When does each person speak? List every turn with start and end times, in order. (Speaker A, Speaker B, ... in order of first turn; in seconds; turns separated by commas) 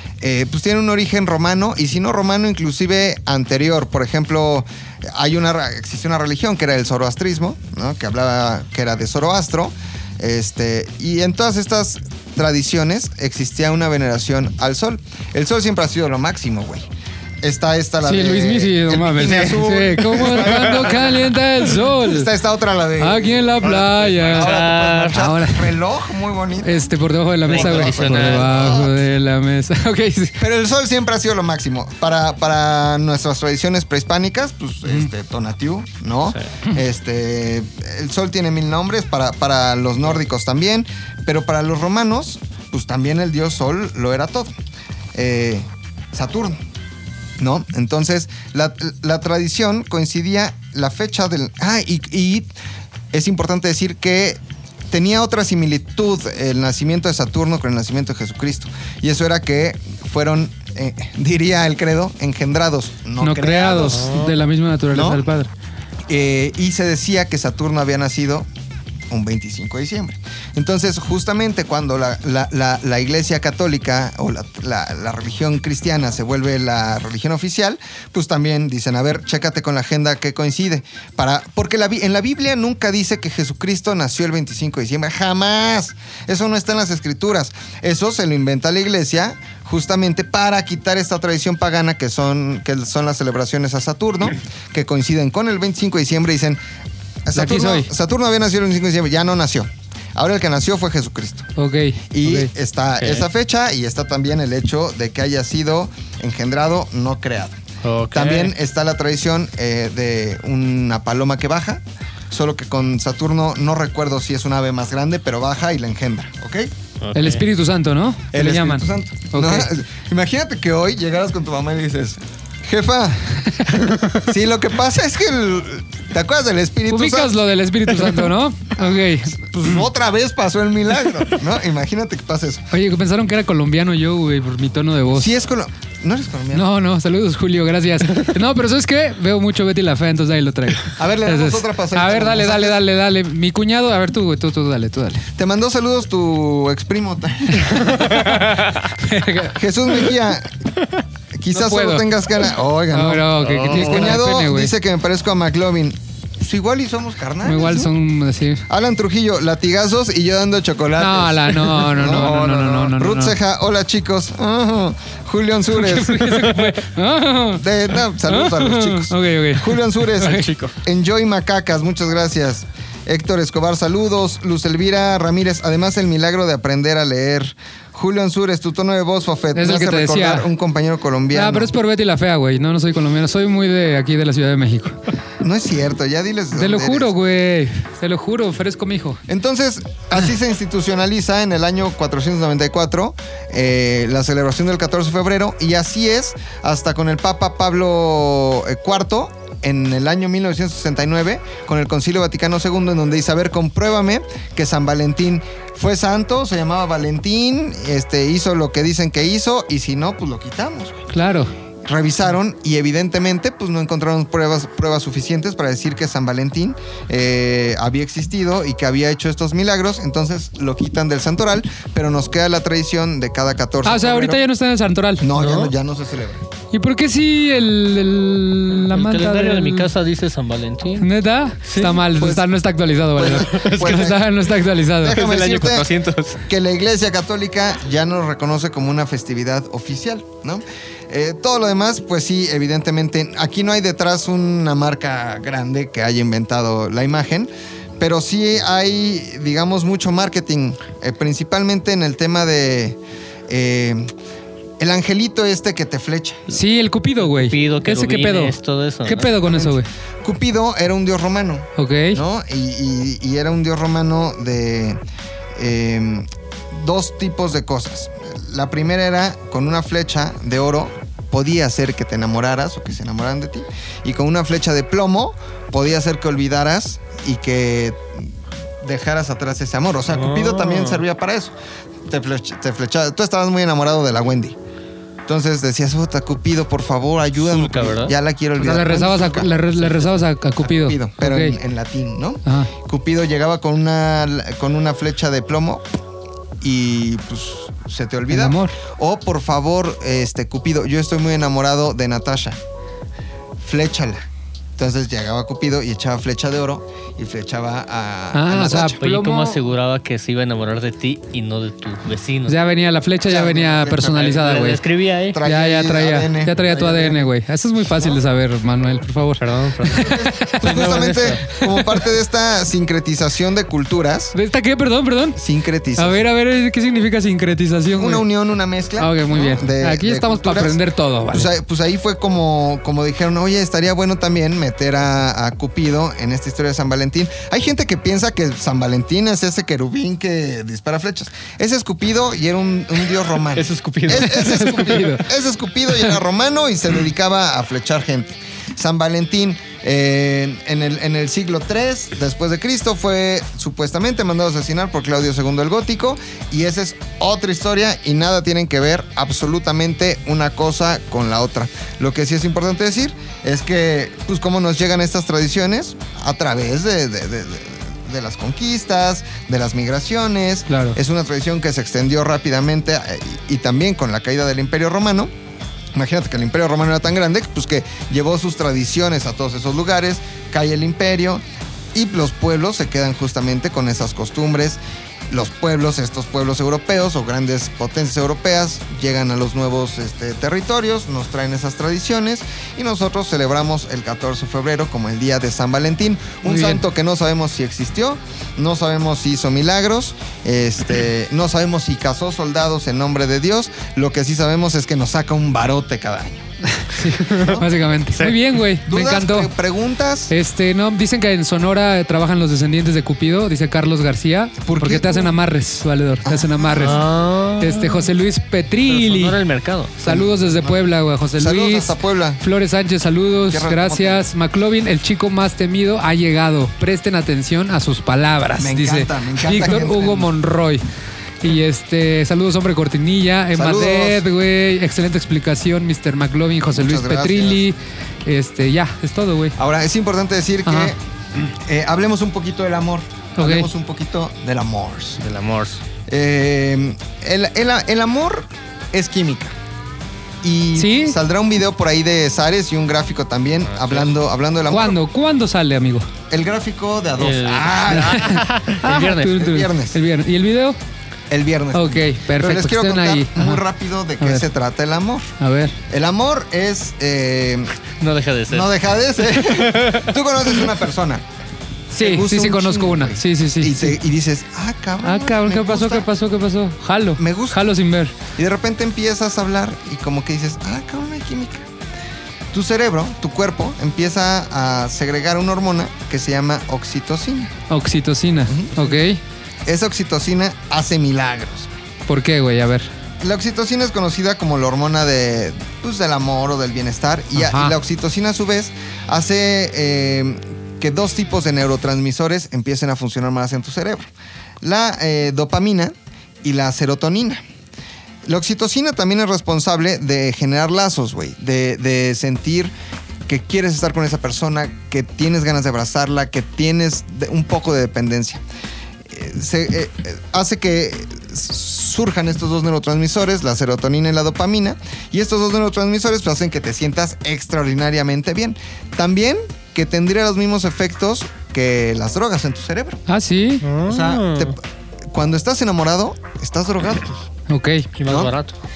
Speaker A: 0.2-16.9, Speaker A: 17.4-26.8, Speaker B: 18.0-22.3, Speaker B: 23.0-24.5, Speaker C: 23.8-25.2, Speaker B: 25.1-25.7, Speaker B: 26.6-30.4, Speaker C: 27.4-28.7, Speaker A: 27.4-28.9, Speaker A: 30.4-44.5, Speaker A: 45.1-46.6, Speaker A: 47.4-52.5, Speaker A: 53.1-64.2, Speaker B: 63.2-65.5, Speaker C: 63.8-64.3, Speaker A: 64.9-65.2, Speaker A: 66.1-68.5, Speaker A: 69.1-96.6, Speaker A: 97.2-101.5, Speaker B: 97.3-97.9, Speaker B: 101.5-102.5, Speaker A: 102.1-116.7, Speaker C: 107.8-108.5, Speaker C: 117.0-117.4, Speaker B: 117.1-119.7, Speaker A: 118.3-127.4, Speaker B: 126.9-129.8, Speaker A: 129.3-132.7, Speaker B: 132.7-135.3, Speaker A: 135.1-136.7, Speaker B: 136.5-145.2, Speaker A: 140.9-142.8, Speaker A: 145.4-148.2, Speaker B: 147.6-149.6, Speaker A: 149.5-150.5, Speaker A: 151.4-157.9, Speaker B: 151.5-152.1, Speaker B: 152.9-154.7, Speaker C: 153.4-154.2, Speaker B: 157.4-158.6, Speaker A: 158.7-166.7, Speaker B: 161.0-163.3, Speaker C: 162.3-162.7, Speaker B: 165.7-167.6, Speaker A: 167.5-181.7, Speaker B: 168.2-170.5, Speaker C: 170.2-170.7, Speaker B: 179.5-180.5, Speaker B: 181.3-185.0, Speaker A: 185.4-187.1, Speaker B: 186.5-189.2, Speaker A: 189.3-211.1, Speaker B: 211.1-211.5, Speaker A: 211.8-224.4, Speaker B: 223.8-225.3, Speaker A: 225.2-226.4, Speaker C: 225.3-225.7, Speaker B: 226.7-229.9, Speaker C: 228.9-231.1, Speaker B: 231.0-235.2, Speaker C: 231.6-232.0, Speaker A: 232.1-232.5, Speaker A: 233.2-234.3, Speaker C: 233.2-234.1, Speaker A: 235.0-235.9, Speaker C: 235.0-236.4, Speaker A: 236.4-254.1, Speaker A: 254.8-256.5, Speaker B: 256.5-259.9, Speaker C: 257.2-259.3, Speaker A: 259.4-265.0, Speaker B: 261.8-262.2, Speaker A: 265.6-281.5, Speaker C: 280.1-281.0, Speaker A: 282.1-284.6, Speaker A: 285.3-295.8, Speaker C: 287.4-288.1, Speaker B: 288.6-291.6, Speaker B: 292.4-292.7, Speaker A: 296.6-302.6, Speaker B: 298.3-298.7, Speaker A: 303.6-304.2, Speaker A: 304.8-309.0, Speaker B: 308.3-309.6, Speaker C: 308.7-312.6, Speaker B: 312.5-314.8, Speaker A: 313.2-314.4, Speaker C: 314.2-315.4, Speaker A: 315.3-317.3, Speaker B: 315.4-321.8, Speaker C: 319.4-321.5, Speaker A: 319.9-324.3, Speaker B: 324.3-325.4, Speaker A: 325.4-326.2, Speaker B: 325.9-328.2, Speaker A: 328.0-330.8, Speaker B: 329.0-331.5, Speaker A: 331.3-375.3, Speaker C: 343.5-344.7, Speaker B: 344.1-345.3, Speaker B: 370.7-371.0, Speaker A: 375.9-381.4, Speaker A: 381.9-384.8, Speaker A: 385.3-407.7, Speaker B: 396.4-396.8, Speaker B: 406.8-409.5, Speaker C: 407.2-407.6, Speaker C: 408.1-408.4, Speaker A: 408.8-410.3, Speaker B: 410.3-417.0, Speaker A: 414.6-415.3, Speaker A: 416.2-417.0, Speaker C: 416.8-418.1, Speaker B: 417.6-419.4, Speaker C: 418.9-419.9, Speaker B: 420.0-430.8, Speaker A: 420.0-420.8, Speaker A: 421.4-422.4, Speaker A: 423.5-424.2, Speaker A: 428.6-430.3, Speaker B: 431.4-439.5, Speaker A: 433.5-434.2, Speaker A: 436.7-437.6, Speaker A: 439.6-445.2, Speaker B: 440.6-440.9, Speaker B: 443.4-443.7, Speaker C: 445.2-445.8, Speaker A: 446.1-449.5, Speaker A: 450.4-455.0, Speaker B: 450.8-451.2, Speaker C: 453.7-454.1, Speaker B: 454.7-456.1, Speaker A: 456.3-460.0, Speaker C: 457.2-459.5, Speaker B: 457.9-460.8, Speaker A: 461.3-465.3, Speaker B: 461.7-463.6, Speaker B: 464.2-464.4, Speaker B: 465.4-465.7, Speaker A: 465.9-467.7, Speaker C: 468.0-470.7, Speaker A: 468.5-471.2, Speaker B: 471.9-473.9, Speaker A: 472.0-476.1, Speaker B: 475.0-478.1, Speaker A: 477.2-477.7, Speaker A: 478.3-481.7, Speaker A: 482.5-487.5, Speaker B: 487.7-489.2, Speaker A: 488.5-489.0, Speaker A: 489.6-491.7, Speaker B: 492.1-492.9, Speaker A: 493.2-504.1, Speaker B: 497.3-497.8, Speaker A: 504.6-505.9, Speaker A: 506.4-507.4, Speaker A: 508.2-512.7, Speaker A: 513.2-518.4, Speaker A: 519.1-533.0, Speaker B: 533.1-533.6, Speaker C: 533.6-534.5, Speaker A: 533.9-534.6, Speaker A: 535.1-537.1, Speaker B: 537.5-537.9, Speaker C: 538.0-538.6, Speaker A: 538.0-538.3